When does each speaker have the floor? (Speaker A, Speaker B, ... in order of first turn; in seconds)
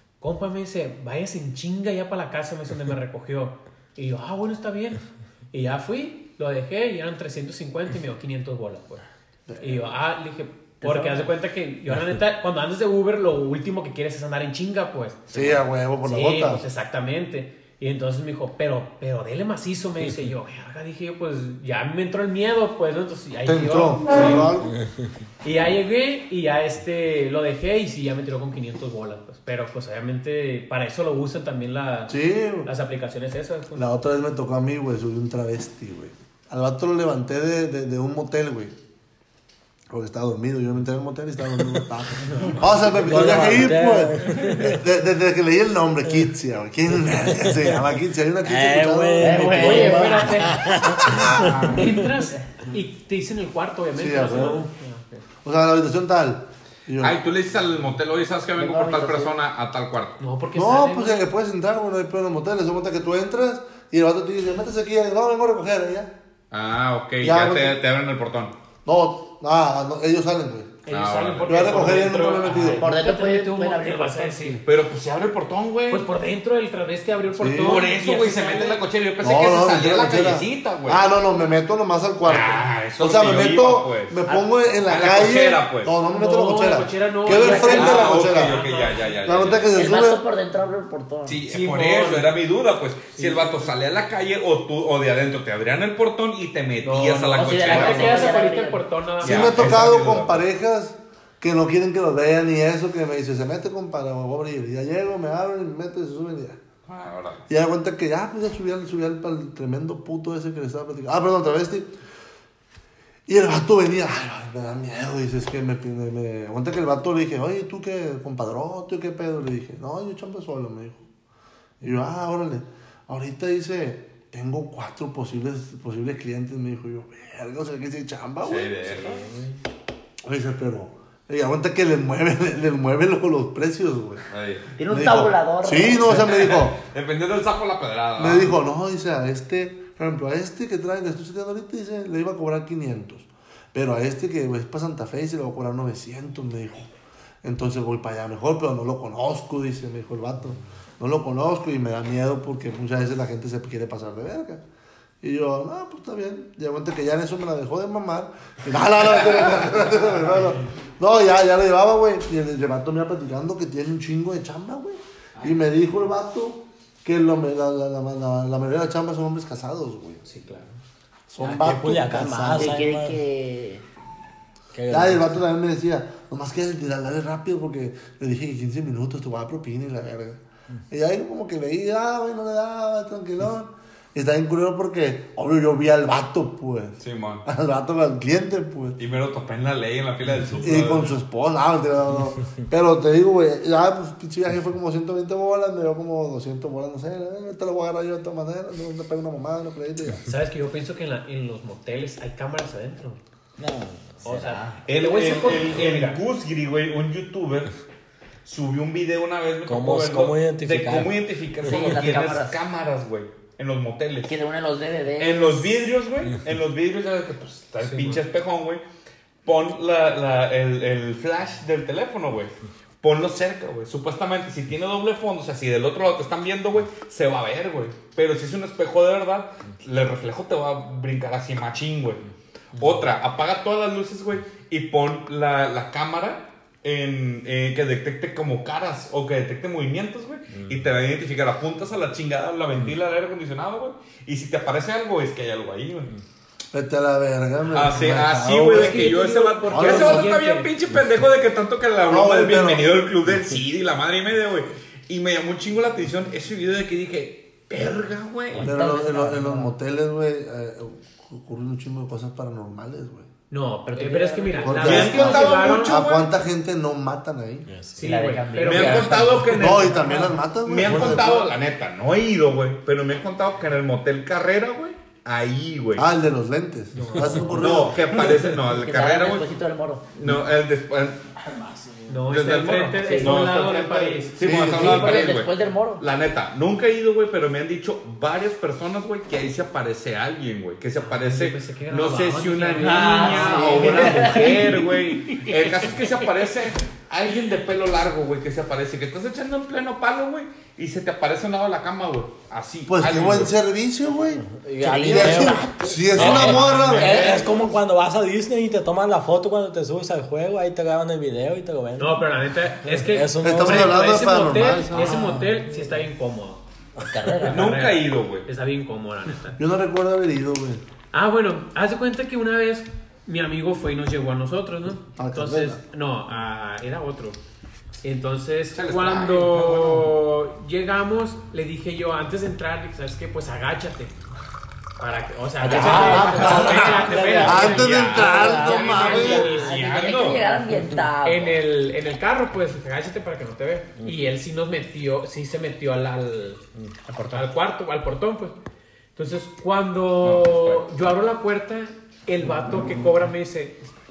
Speaker A: 0.2-5.0, 5.5-9.0, 9.6-15.3, 16.0-24.5, 25.4-33.9, 49.5-50.8, 51.7-55.2, 60.2-61.3, 70.8-74.6, 75.9-78.8, 86.1-89.2, 91.5-92.3, 93.2-93.7, 96.8-99.8, 170.2-170.8, 200.2-203.2, 204.2-206.2, 217.8-218.2, 248.7-250.7, 263.5-266.0, 267.9-270.3, 271.0-271.4, 276.9-277.7, 282.1-284.4, 291.0-294.7, 295.3-296.1, 306.2-307.3, 312.0-316.6, 317.4-319.6, 321.1-327.4, 328.0-334.1, 335.0-340.1, 341.2-348.5, 349.1-353.9
Speaker B: 9.5-9.9, 15.3-16.6, 23.4-24.7, 32.1-32.7, 33.7-38.8, 39.9-49.7, 50.9-51.8, 53.9-54.6, 55.4-57.2, 60.5-66.1, 67.2-67.8, 68.8-70.8, 71.4-72.8, 77.3-77.8, 79.2-88.6, 89.2-90.2, 99.2-106.6, 107.5-111.9, 113.3-121.0, 121.8-128.9, 130.2-134.2, 134.9-136.8, 138.2-146.9, 147.4-154.6, 155.2-170.2, 171.3-172.8, 174.9-189.0, 190.6-200.2, 246.7-249.1, 249.7-250.3, 252.1-252.9, 258.6-263.3, 264.6-267.7, 269.5-271.4, 275.9-278.3, 284.4-285.2, 293.8-294.1, 302.9-307.3, 313.4-315.3, 319.6-320.8, 325.2-325.8, 335.6-339.5
Speaker C: 10.8-11.3, 49.2-50.6, 58.5-59.3, 72.8-74.6, 87.3-88.0, 89.7-91.4, 97.3-98.8, 134.8-136.3, 172.5-173.8, 204.2-204.8, 211.6-212.6, 214.3-215.9, 258.5-259.7, 263.9-265.4, 268.0-269.7, 278.8-280.1, 283.0-283.4, 284.6-286.0, 292.8-294.8, 304.8-307.5, 314.9-315.3, 317.1-317.8, 335.6-337.6, 338.2-341.6
Speaker D: 43.0-44.8, 47.1-47.8, 48.4-52.0, 171.4-173.2, 174.7-175.3, 203.6-204.1, 209.7-211.2, 267.7-268.0, 270.9-271.2, 281.5-282.0, 304.5-312.2, 312.9-314.0, 336.1-338.5
Speaker E: 57.0-60.2, 66.5-68.5, 70.9-72.0, 74.6-76.0, 77.5-81.0, 82.2-84.2, 84.8-85.9, 87.6-89.8, 91.2-98.3, 99.2-100.4, 106.8-107.4, 128.4-129.3, 134.3-134.7, 136.1-138.6, 187.0-187.4, 189.0-191.2, 204.8-207.7, 208.4-214.3, 215.2-218.8, 219.4-232.2, 232.7-246.1, 247.7-258.7, 264.8-266.3, 268.6-276.1, 277.5-279.5, 280.1-281.2, 282.3-303.6, 306.2-307.4, 317.4-318.4, 328.7-330.0, 339.0-340.5, 350.2-350.8